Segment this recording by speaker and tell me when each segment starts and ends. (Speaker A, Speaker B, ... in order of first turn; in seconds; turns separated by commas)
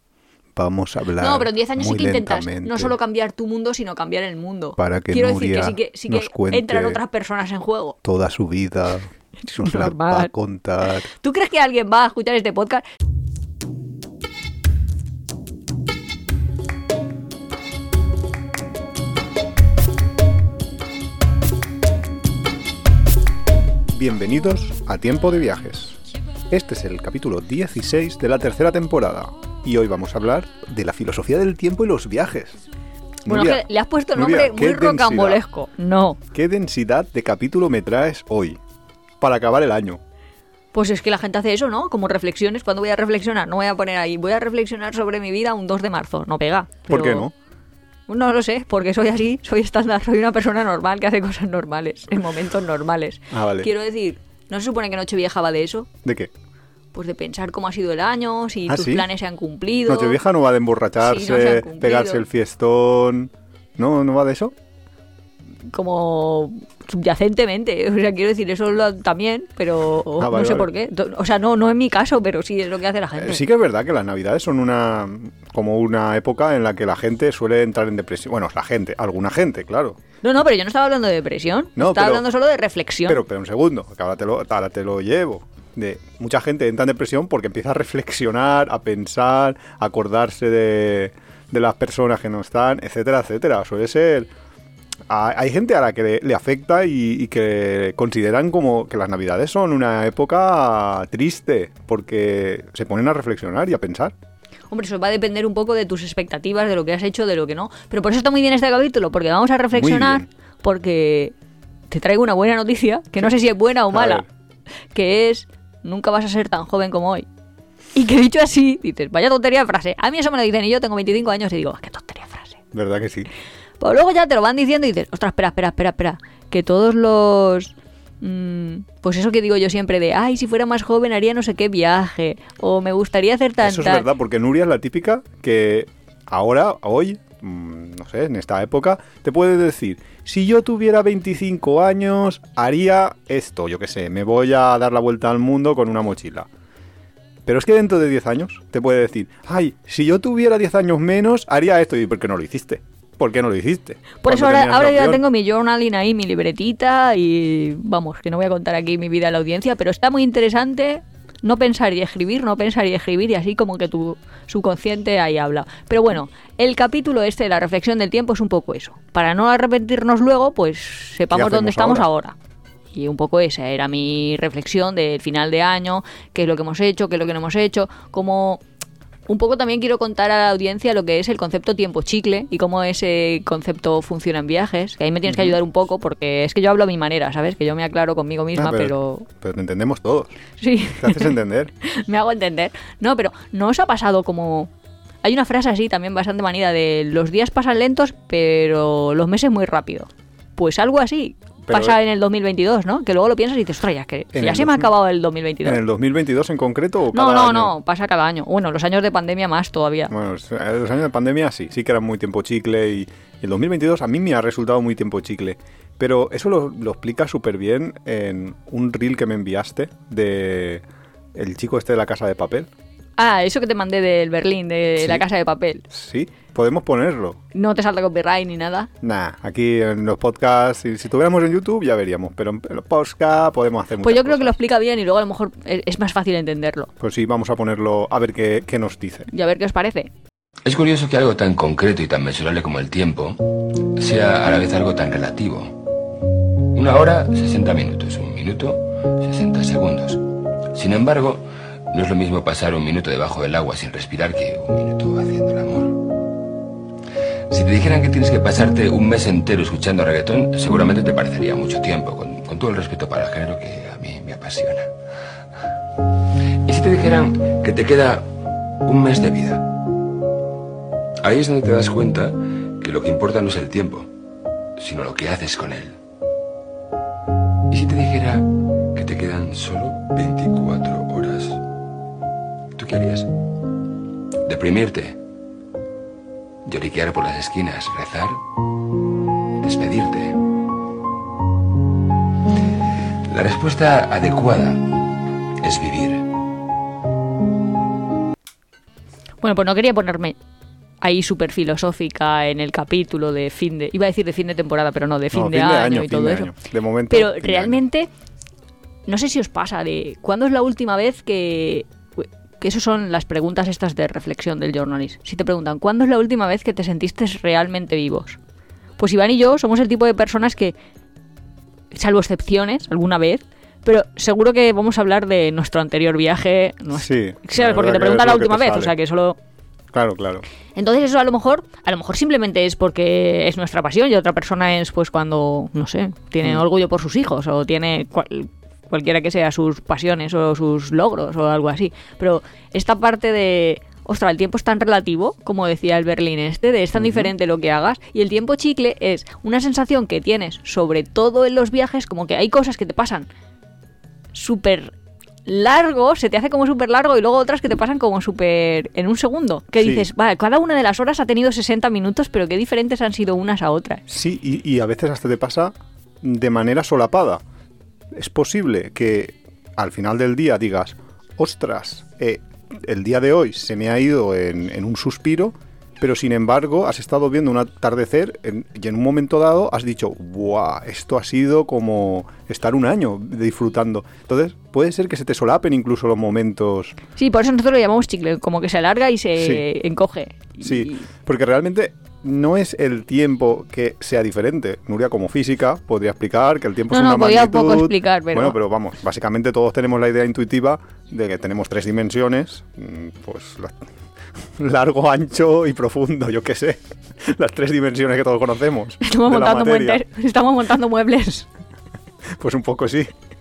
Speaker A: 0.5-2.9, Speaker B: 1.2-8.0, Speaker A: 4.8-7.0, Speaker A: 8.0-11.1, Speaker B: 9.4-10.3, Speaker B: 11.0-12.8, Speaker A: 23.9-26.0, Speaker A: 26.5-32.6, Speaker A: 33.2-35.4, Speaker B: 33.3-36.2, Speaker A: 36.3-38.6, Speaker A: 39.2-40.0, Speaker B: 40.7-47.3, Speaker A: 46.9-47.3, Speaker B: 48.1-55.9, Speaker A: 53.3-53.7, Speaker A: 56.0-56.3, Speaker B: 56.9-60.2, Speaker A: 58.7-59.0, Speaker A: 59.9-64.5, Speaker B: 61.0-62.2, Speaker B: 65.7-73.4, Speaker A: 70.2-70.7, Speaker A: 73.2-80.0, Speaker B: 80.2-83.2, Speaker A: 81.8-82.2, Speaker A: 83.1-94.3, Speaker A: 95.1-104.1, Speaker B: 104.7-111.3, Speaker A: 109.7-110.3, Speaker B: 111.9-114.2, Speaker A: 113.9-114.2, Speaker B: 114.9-117.2, Speaker B: 117.9-122.6, Speaker A: 122.7-123.3, Speaker B: 123.8-134.1, Speaker A: 133.6-146.5, Speaker A: 147.4-155.2, Speaker B: 154.2-172.3, Speaker A: 171.3-172.1, Speaker B: 172.9-178.6, Speaker B: 179.3-189.3, Speaker A: 185.3-185.6, Speaker A: 188.6-190.3, Speaker B: 190.6-194.7, Speaker A: 191.0-191.7, Speaker B: 195.2-205.8, Speaker A: 201.7-202.0, Speaker A: 204.3-204.9, Speaker A: 205.6-207.7, Speaker B: 207.1-210.1, Speaker A: 210.1-222.7, Speaker B: 223.2-225.9, Speaker A: 225.0-225.2, Speaker A: 225.9-227.4, Speaker B: 227.5-228.9, Speaker A: 229.0-234.5, Speaker B: 234.0-236.9, Speaker A: 237.0-239.3, Speaker B: 239.3-240.1, Speaker C: 240.6-245.8, Speaker C: 246.7-256.2, Speaker C: 257.5-264.9, Speaker C: 266.6-269.9, Speaker C: 271.2-274.1, Speaker C: 274.8-275.9, Speaker C: 277.7-281.6, Speaker C: 282.8-283.4, Speaker C: 284.4-285.2, Speaker C: 286.6-288.4, Speaker C: 289.6-290.5, Speaker C: 293.2-296.3, Speaker B: 299.4-300.4, Speaker B: 301.0-306.5, Speaker A: 305.3-307.8, Speaker B: 307.1-308.1, Speaker B: 309.1-318.4, Speaker B: 319.0-320.7, Speaker B: 321.9-329.4, Speaker A: 326.9-328.9, Speaker A: 329.9-330.4, Speaker B: 330.8-353.3, Speaker A: 346.9-347.3, Speaker B: 354.3-354.9, Speaker B: 355.4-364.0, Speaker A: 359.8-360.1, Speaker A: 364.1-367.4, Speaker A: 368.1-386.9, Speaker B: 387.2-391.1, Speaker A: 389.4-389.6, Speaker A: 390.6-403.9, Speaker B: 396.9-398.6, Speaker A: 404.6-410.0, Speaker B: 409.0-411.5, Speaker A: 412.4-413.1